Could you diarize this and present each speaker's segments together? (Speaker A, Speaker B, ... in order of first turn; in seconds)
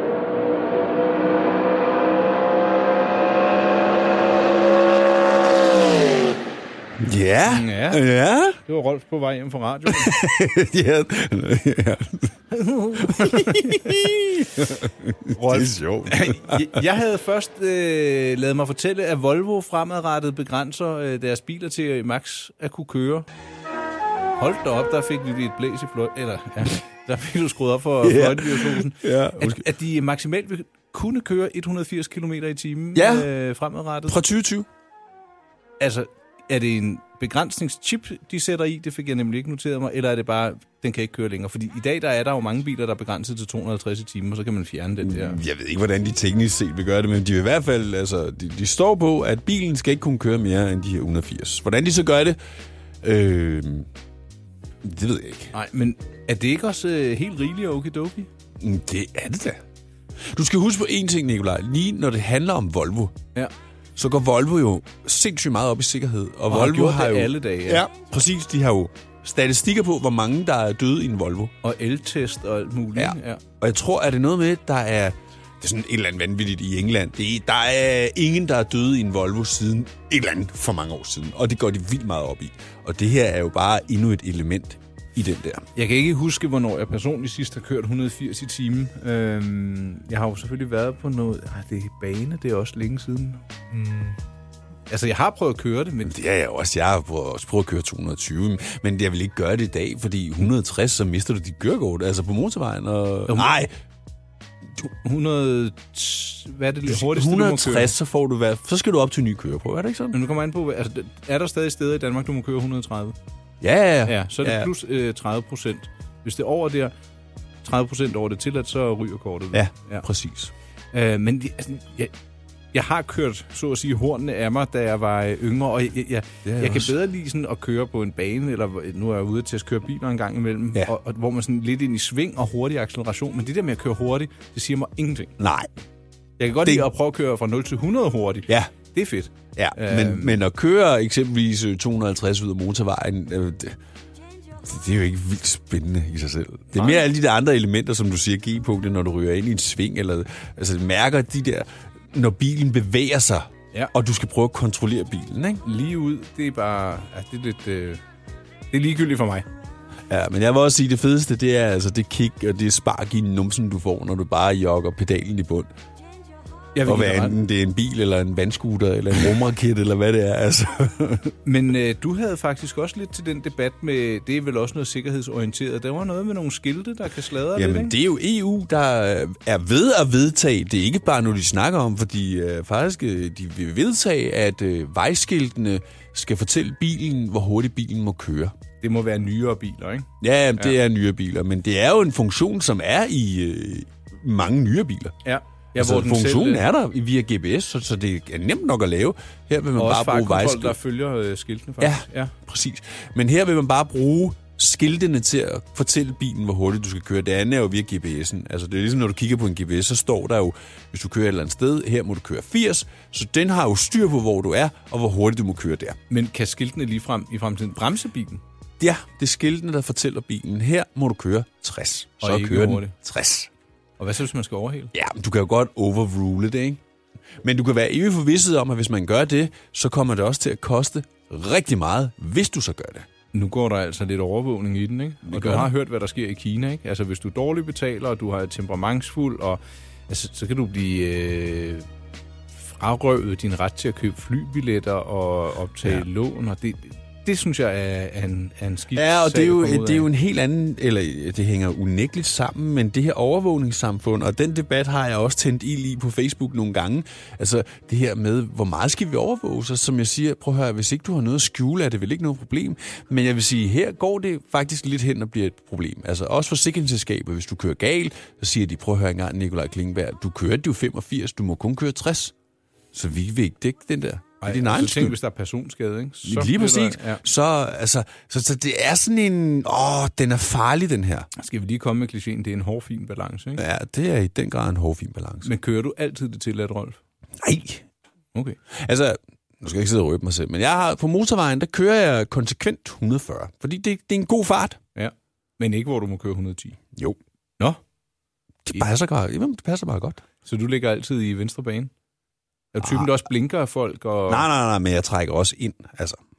Speaker A: 7.0-8.6, 9.9-12.3, 13.0-16.8, 28.0-29.7, 32.9-33.3, 34.1-34.7, 45.0-52.4, 53.0-53.9, 54.8-55.5, 58.6-59.6, 60.2-63.1, 64.0-71.5, 73.0-85.7, 96.0-103.7, 106.8-110.2, 113.6-114.7, 119.5-120.5, 126.4-126.9, 135.4-135.7, 139.6-143.8, 144.6-155.6, 160.1-165.7, 166.8-171.3, 177.5-188.5, 190.2-195.2, 195.8-200.8, 201.8-216.0, 218.8-223.5, 224.9-226.8, 227.4-233.1, 235.2-235.7, 248.9-272.3, 272.9-275.2, 276.2-281.3, 283.6-285.5, 287.4-287.9, 288.7-294.8, 298.6-300.2, 302.8-303.1, 304.3-306.2
Speaker B: 7.5-8.0, 8.6-10.1, 12.5-14.0, 15.3-23.3, 24.4-34.2, 35.8-45.4, 55.5-58.3, 66.5-67.9, 71.6-73.4, 85.8-94.2, 94.9-96.1, 103.3-103.6, 105.0-107.9, 110.1-113.2, 114.0-116.9, 117.6-120.0, 120.9-122.1, 122.7-135.3, 136.4-140.4, 146.7-147.0, 155.6-158.0, 158.7-159.5, 166.7-167.4, 171.4-177.9, 188.8-190.8, 195.2-196.7, 199.8-202.3, 216.1-218.4, 222.2-222.9, 224.0-224.9, 233.3-241.9, 242.5-250.1, 274.4-277.2, 281.4-283.6, 285.4-287.0, 294.9-296.8, 300.4-301.9, 302.7-304.4